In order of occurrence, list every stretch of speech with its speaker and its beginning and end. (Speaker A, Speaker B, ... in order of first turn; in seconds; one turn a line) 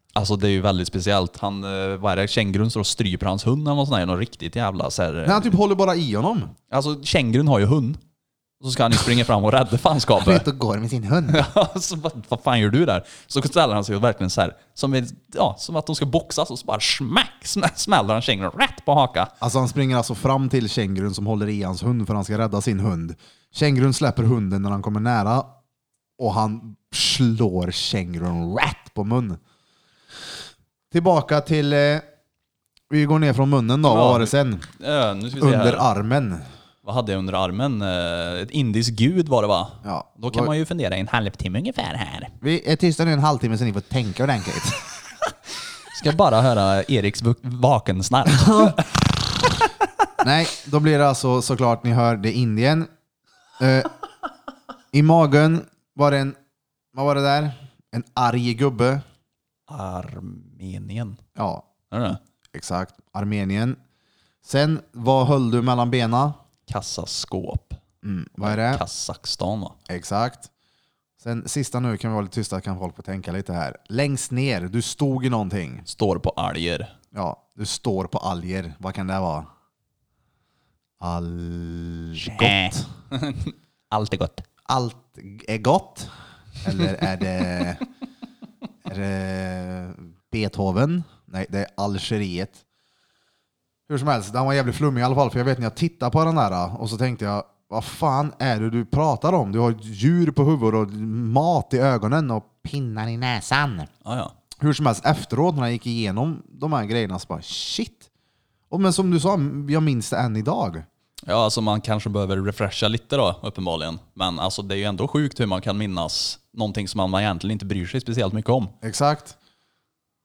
Speaker A: 0.1-5.6
Speaker B: 5.2-6.5
Speaker A: 6.7-8.0
Speaker A: 8.6-10.5
Speaker B: 10.2-11.4
Speaker A: 11.3-19.3
Speaker B: 19.4-25.5
Speaker B: 26.2-29.4
Speaker B: 30.9-32.0
Speaker B: 32.9-34.7
Speaker A: 33.9-35.9
Speaker B: 35.4-36.5
Speaker A: 36.8-42.3
Speaker B: 39.8-40.5
Speaker B: 42.4-44.9
Speaker A: 45.9-49.9
Speaker B: 48.3-48.8
Speaker B: 50.2-52.9
Speaker B: 53.6-53.9
Speaker B: 54.9-56.4
Speaker B: 56.9-59.0
Speaker A: 59.7-61.2
Speaker B: 61.4-61.7
Speaker A: 61.9-62.2
Speaker B: 62.5-63.8
Speaker B: 64.4-66.3
Speaker A: 66.7-67.8
Speaker B: 68.0-68.8
Speaker A: 68.4-69.8
Speaker B: 69.9-70.5
Speaker B: 71.2-75.9
Speaker A: 75.9-76.9
Speaker B: 77.1-79.5
Speaker B: 81.0-82.9
Speaker A: 82.2-84.5
Speaker B: 84.7-86.1
Speaker B: 86.6-87.9
Speaker B: 88.9-92.6
Speaker B: 93.9-103.9
Speaker A: 104.0-104.3
Speaker B: 104.6-108.0
Speaker B: 108.7-110.9
Speaker A: 111.3-118.7
Speaker B: 118.8-119.4